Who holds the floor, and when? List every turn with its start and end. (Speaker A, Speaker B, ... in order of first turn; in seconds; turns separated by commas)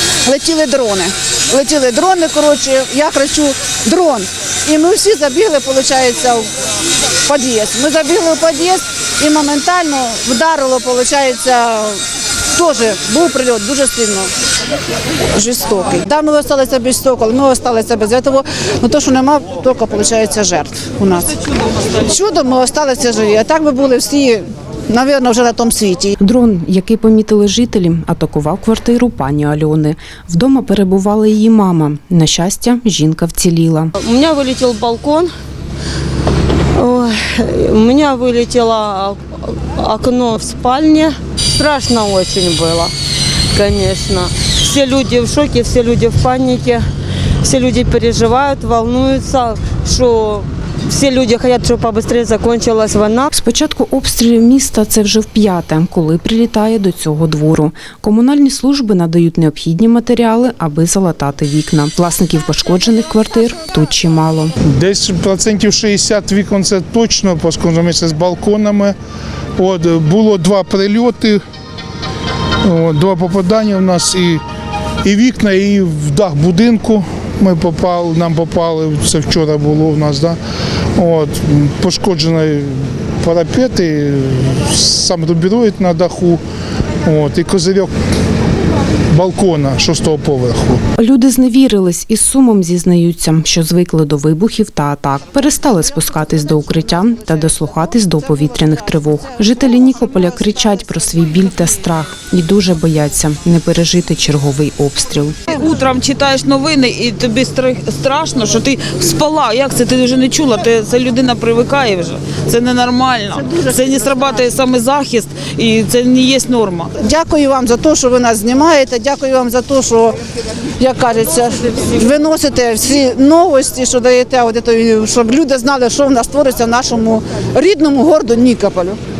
Speaker A: 0.2-6.5, Speaker A: 7.2-12.0, Speaker A: 12.5-14.3, Speaker A: 15.3-21.4, Speaker A: 22.0-26.1, Speaker B: 26.2-33.9, Speaker C: 34.0-35.3, Speaker C: 36.7-42.9, Speaker C: 43.5-46.9, Speaker C: 47.4-53.3, Speaker B: 53.3-64.5, Speaker D: 64.7-69.0, Speaker D: 69.6-71.4, Speaker D: 72.6-74.4, Speaker D: 75.0-80.4, Speaker D: 81.0-86.4, Speaker D: 87.0-87.9, Speaker D: 89.1-90.8, Speaker B: 91.0-105.4, Speaker E: 105.5-116.9, Speaker A: 117.0-120.2, Speaker A: 120.8-129.0